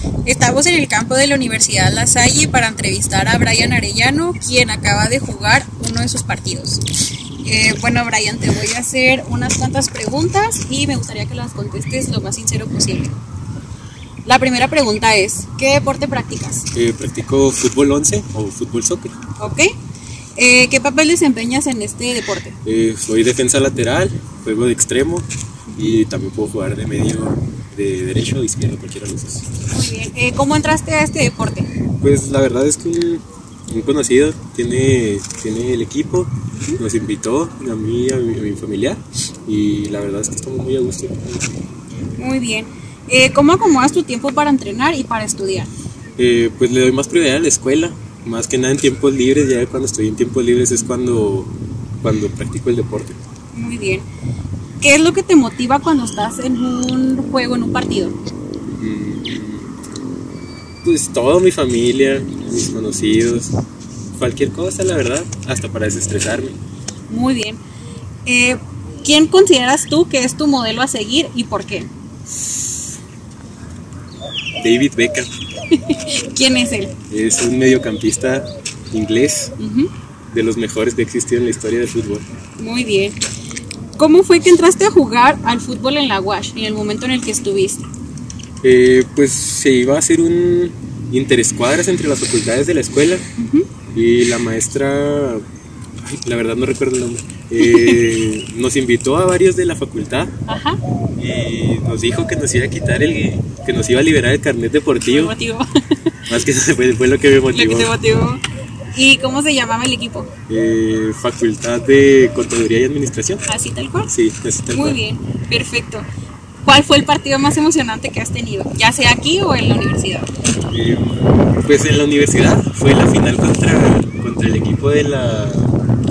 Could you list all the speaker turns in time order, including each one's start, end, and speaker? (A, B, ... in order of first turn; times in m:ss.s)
0:00.2-0:06.8 A
0:07.4-0:13.1 A
0:14.2-0:16.7 A
0:16.7-0:19.2 B
0:19.4-0:19.7 A
0:20.4-0:22.6 A
0:22.6-0:29.5 B
0:29.7-0:31.7 A
0:32.0-0:41.5 B
0:42.2-0:45.7 A
0:46.2-0:53.2 B
0:53.5-0:54.1 A
0:54.8-0:58.2 A
0:58.8-0:59.7 B
1:00.8-1:03.5 B
1:04.2-1:06.6 B
1:07.1-1:07.6 A
1:08.2-1:11.9 A
1:14.6-1:15.3 B
1:15.7-1:16.9 A
1:17.1-1:19.5 B
1:19.6-1:19.9 A
1:20.3-1:22.2 B
1:22.6-1:23.2 A
1:24.0-1:27.9 A
1:28.6-1:33.2 B
1:33.4-1:33.7 A
1:33.9-1:35.4 B
1:36.2-1:40.3 B
1:37.6-1:38.2 A
1:40.5-1:40.8 A
1:41.2-1:45.3 B
1:45.0-1:45.7 A
1:46.3-1:47.9 B
1:47.5-1:48.4 A
1:48.9-1:50.3 A
1:50.5-1:53.4 B
1:53.5-1:54.1 A
1:54.1-1:55.0 B
1:54.7-1:56.1 A
1:56.6-2:00.3 A
2:00.7-2:05.8 B